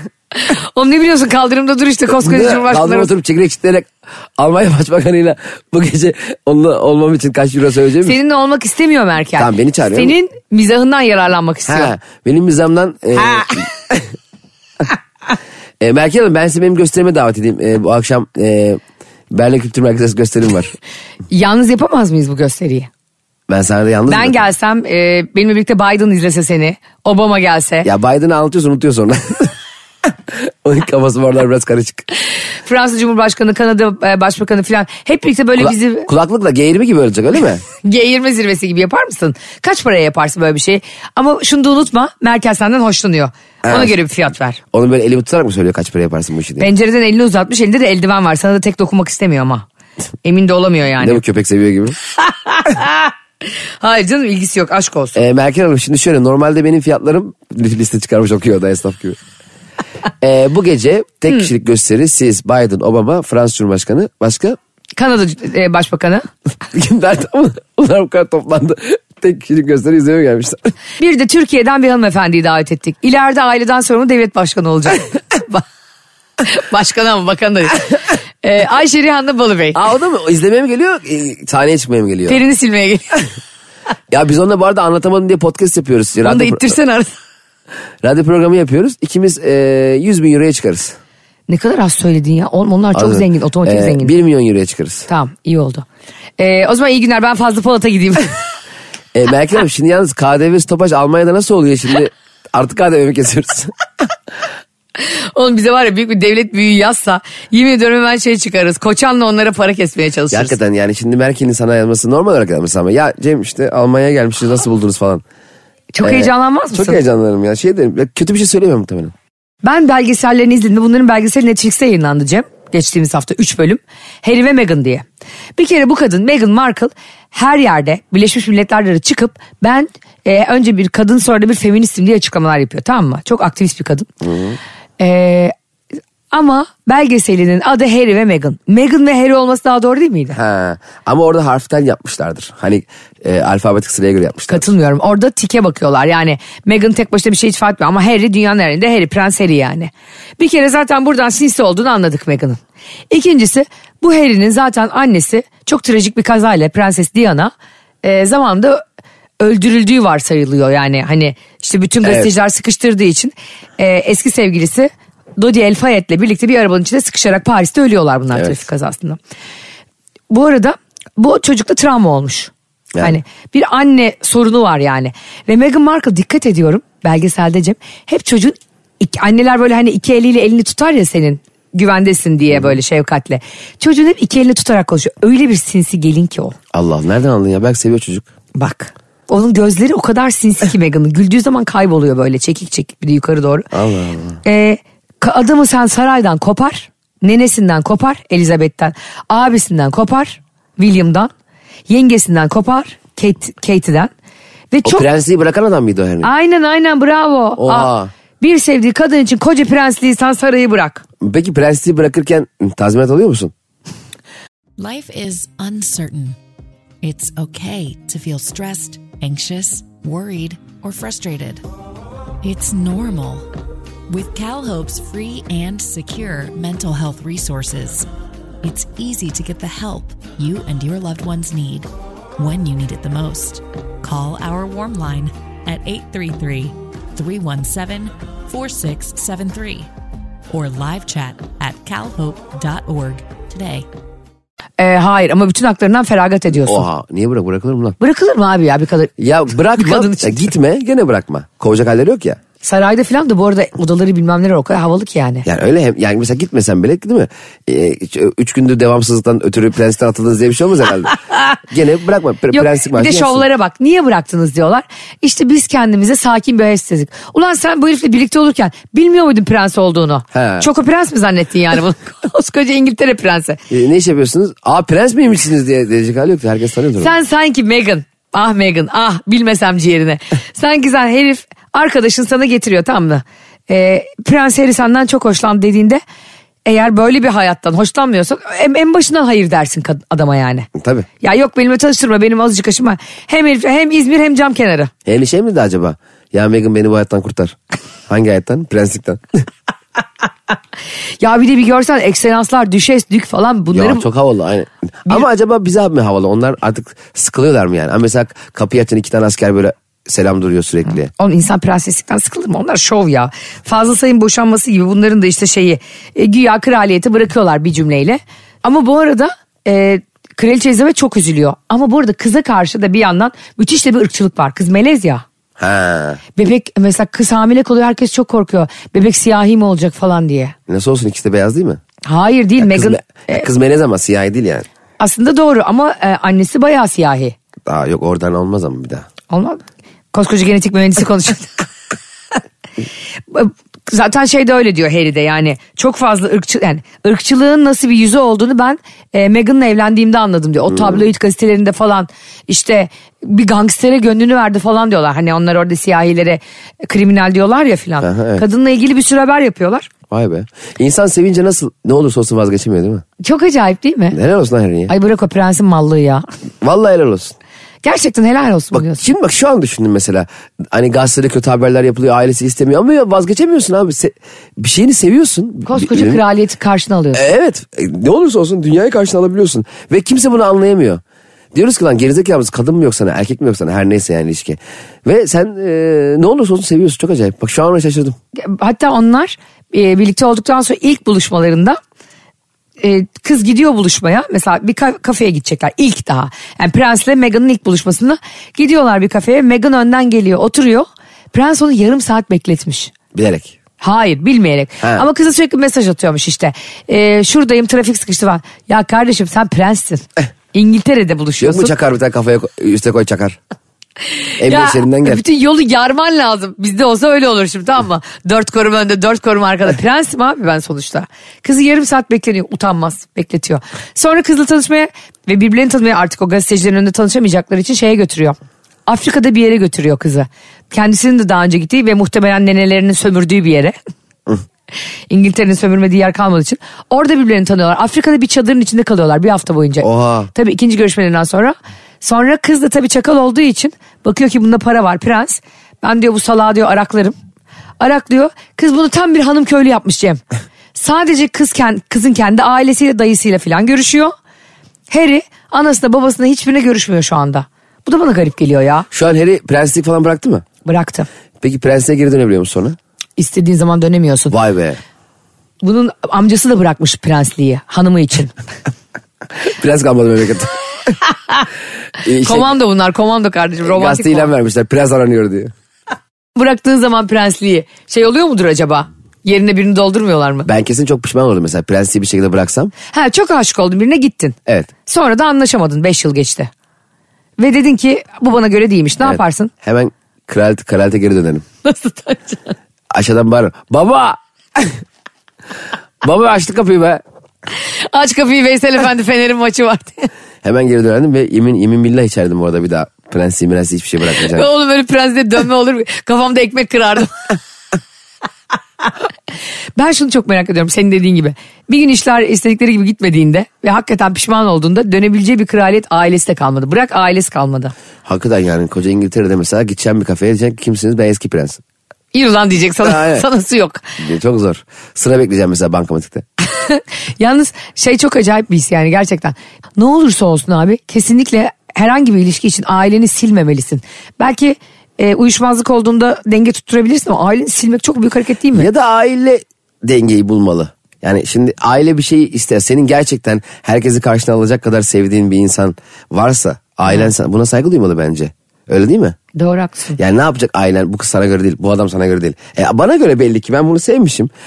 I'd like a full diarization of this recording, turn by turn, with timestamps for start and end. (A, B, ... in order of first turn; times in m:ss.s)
0:00.4-0:03.1 A
0:02.2-0:08.2 B
0:08.0-0:11.9 A
0:09.4-0:10.1 B
0:11.7-0:14.1 B
0:15.8-0:20.7 B
0:21.3-0:22.9 A
0:23.5-0:24.4 B
0:24.1-0:27.9 A
0:27.8-0:29.5 B
0:30.1-0:32.1 B
0:32.6-0:36.1 A
0:35.6-0:37.6 B
0:37.8-0:44.6 A
0:43.6-0:43.9 B
0:44.7-0:46.7 B
0:46.6-0:49.6 A
0:50.2-0:51.2 A
0:51.0-0:52.0 B
0:52.3-0:53.1 A
0:53.8-0:55.2 A
0:55.1-0:59.2 B
1:00.2-1:04.6 B
1:05.0-1:06.2 A
1:06.7-1:10.7 B
1:11.0-1:15.6 A
1:16.4-1:19.8 A
1:19.7-1:22.4 B
1:22.3-1:23.2 A
1:24.1-1:26.7 B
1:26.2-1:27.1 A
1:28.0-1:31.0 B
1:31.5-1:34.1 A
1:32.9-1:35.1 B
1:35.1-1:35.8 A
1:36.4-1:38.3 A
1:39.1-1:43.7 B
1:45.0-1:50.6 A
1:50.3-1:55.2 B
1:55.9-1:57.0 A
1:56.0-1:59.1 B
1:59.6-2:05.0 A
2:05.6-2:14.1 A
2:14.2-2:14.6 B
2:15.0-2:15.5 A
2:16.3-2:20.4 A
2:20.3-2:24.7 B
2:24.5-2:32.6 A
2:33.1-2:38.8 A
2:39.4-2:49.2 A
2:42.0-2:42.3 B
2:48.3-2:48.6 B
2:50.3-3:06.6 A
3:02.5-3:02.8 B
3:06.7-3:08.2 B
3:08.6-3:13.7 A
3:13.7-3:14.4 B
3:14.4-3:21.3 A
3:21.9-3:24.1 A
3:24.7-3:25.0 A
3:24.8-3:26.3 B
3:26.2-3:31.0 A
3:27.6-3:28.1 B
3:31.2-3:33.5 B
3:34.8-3:36.4 C
3:37.0-3:41.6 C
3:42.4-3:43.4 C
3:44.1-3:48.1 C
3:48.6-3:59.9 C
4:00.5-4:03.9 C
4:04.8-4:06.8 A
4:06.6-4:08.0 B
4:08.0-4:09.1 A
4:09.2-4:12.4 B
4:09.7-4:10.5 A
4:12.6-4:15.4 A
4:15.4-4:21.2 B
4:21.7-4:23.4 B
4:22.5-4:33.6 A
4:30.3-4:30.7 B
4:33.7-4:37.1 B
4:37.0-4:46.0 A
4:46.6-4:50.7 A
4:50.7-4:51.1 B
4:51.2-4:54.9 A
4:55.0-4:57.6 B
4:58.1-4:59.4 B
5:01.2-5:04.0 A
5:03.7-5:11.1 B
5:11.2-5:25.2 A
5:25.6-5:26.2 B
5:26.4-5:30.5 A
5:30.7-5:31.8 B
5:32.0-5:33.4 A
5:32.6-5:34.7 B
5:35.0-5:37.4 A
5:37.6-5:39.1 B
5:39.3-5:41.5 A
5:43.3-5:59.9 A
5:50.7-5:51.1 B
5:58.0-5:58.4 B
6:00.1-6:03.0 B
6:03.2-6:04.2 A
6:04.1-6:04.9 B
6:04.9-6:06.2 A
6:06.6-6:07.3 B
6:07.8-6:09.0 A
6:08.7-6:16.2 B
6:15.7-6:17.2 A
6:17.1-6:21.0 B
6:21.5-6:28.2 B
6:28.4-6:31.8 A
6:32.8-6:42.9 A
6:43.1-6:43.5 B
6:43.8-6:51.7 A
6:51.4-6:53.4 B
6:54.4-7:13.7 A
6:54.4-6:55.2 B
7:15.1-7:27.1 A
7:19.8-7:20.3 B
7:27.8-7:30.2 A
7:30.7-7:34.1 A
7:34.9-7:38.9 A
7:38.9-7:40.4 B
7:40.6-7:41.1 A
7:41.4-7:42.8 B
7:43.2-7:44.3 A
7:44.3-7:44.8 B
7:45.6-7:48.3 A
7:49.4-7:51.0 B
7:52.0-7:52.5 B
7:52.2-7:54.3 A
7:53.6-7:55.5 B
7:56.4-8:00.5 A
8:00.4-8:02.7 B
8:02.9-8:06.5 A
8:07.4-8:09.5 A
8:09.0-8:11.4 B
8:11.6-8:12.5 A
8:12.9-8:14.7 B
8:16.0-8:17.0 B
8:17.6-8:20.1 A
8:20.4-8:24.5 B
8:24.2-8:27.4 A
8:29.8-8:37.7 A
8:38.0-8:41.6 B
8:42.1-8:44.0 A
8:42.8-8:43.2 B
8:44.0-8:46.2 B
8:46.5-8:58.7 A
8:58.5-9:09.2 B
9:09.3-9:10.0 A
9:10.0-9:14.3 B